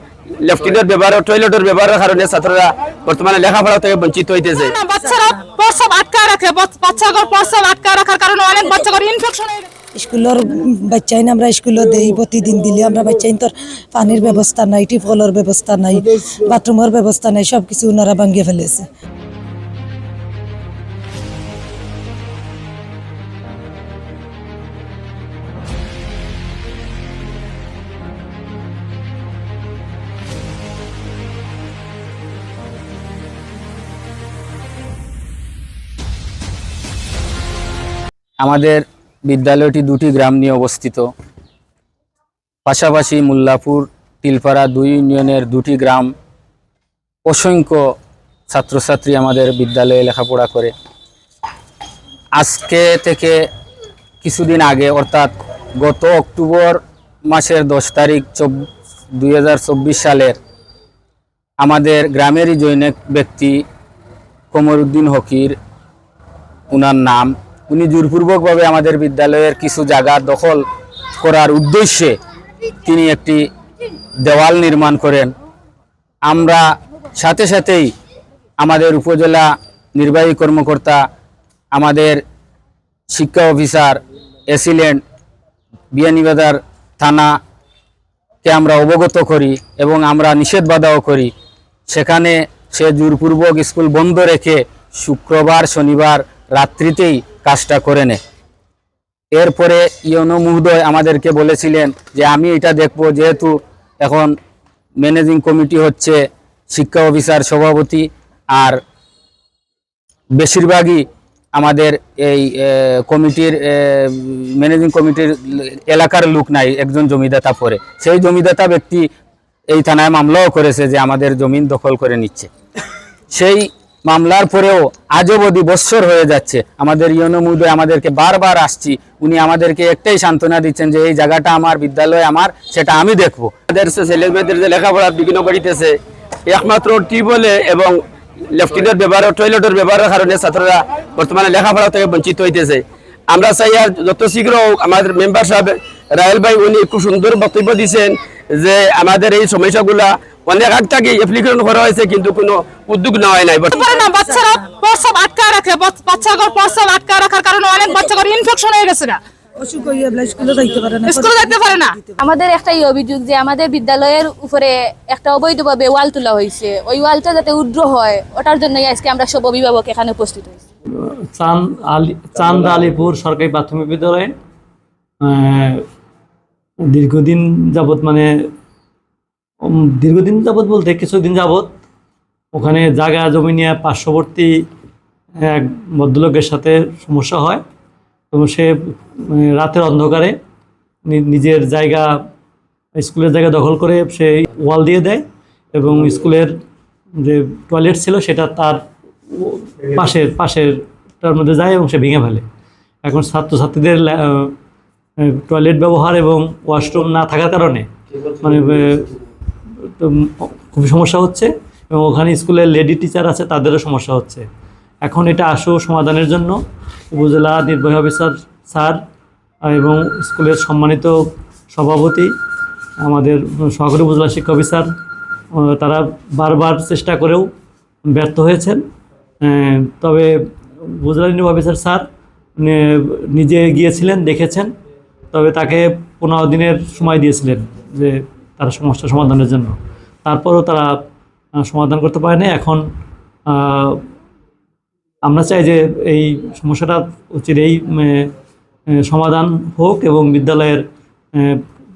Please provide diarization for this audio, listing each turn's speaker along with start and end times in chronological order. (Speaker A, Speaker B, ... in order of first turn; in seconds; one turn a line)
Speaker A: 0.4-4.7
Speaker B: 4.7-9.7
Speaker C: 9.9-18.9
Speaker D: 38.4-41.1
Speaker D: 42.6-46.1
Speaker D: 47.2-47.8
Speaker D: 48.5-50.7
Speaker D: 52.4-53.4
Speaker D: 54.2-58.7
Speaker D: 59.2-60.4
Speaker D: 61.6-63.6
Speaker D: 64.5-65.5
Speaker D: 66.7-70.6
Speaker D: 71.2-72.2
Speaker D: 72.8-73.4
Speaker D: 74.2-75.3
Speaker D: 76.3-76.6
Speaker D: 77.2-77.9
Speaker D: 78.6-81.0
Speaker D: 81.7-82.2
Speaker D: 83.1-85.0
Speaker D: 85.9-87.3
Speaker D: 88.4-91.3
Speaker D: 91.9-98.2
Speaker D: 99.3-104.3
Speaker D: 105.0-106.2
Speaker D: 106.7-108.8
Speaker D: 110.4-119.1
Speaker D: 119.7-122.5
Speaker D: 123.3-133.5
Speaker A: 133.7-135.9
Speaker A: 136.5-138.0
Speaker A: 138.5-154.1
Speaker B: 153.7-159.2
Speaker C: 159.6-162.1
Speaker B: 161.0-161.9
Speaker E: 162.2-170.6
Speaker F: 171.3-174.3
Speaker F: 175.2-175.8
Speaker F: 176.9-178.3
Speaker F: 179.8-181.7
Speaker F: 182.5-184.6
Speaker F: 185.4-187.6
Speaker F: 188.3-188.7
Speaker F: 189.3-190.3
Speaker F: 191.1-192.1
Speaker F: 193.0-196.5
Speaker F: 197.2-202.4
Speaker F: 203.0-204.5
Speaker F: 205.3-207.9
Speaker F: 208.4-209.1
Speaker F: 210.0-214.4
Speaker F: 215.0-216.6
Speaker F: 217.1-219.0
Speaker F: 219.7-221.1
Speaker F: 221.7-222.3
Speaker F: 223.0-224.9
Speaker F: 225.6-227.5
Speaker F: 228.1-228.8
Speaker F: 229.4-230.3
Speaker F: 231.0-232.1
Speaker F: 232.6-234.7
Speaker F: 235.3-241.0
Speaker F: 241.6-242.8
Speaker F: 243.5-244.0
Speaker F: 245.2-248.3
Speaker F: 249.1-250.8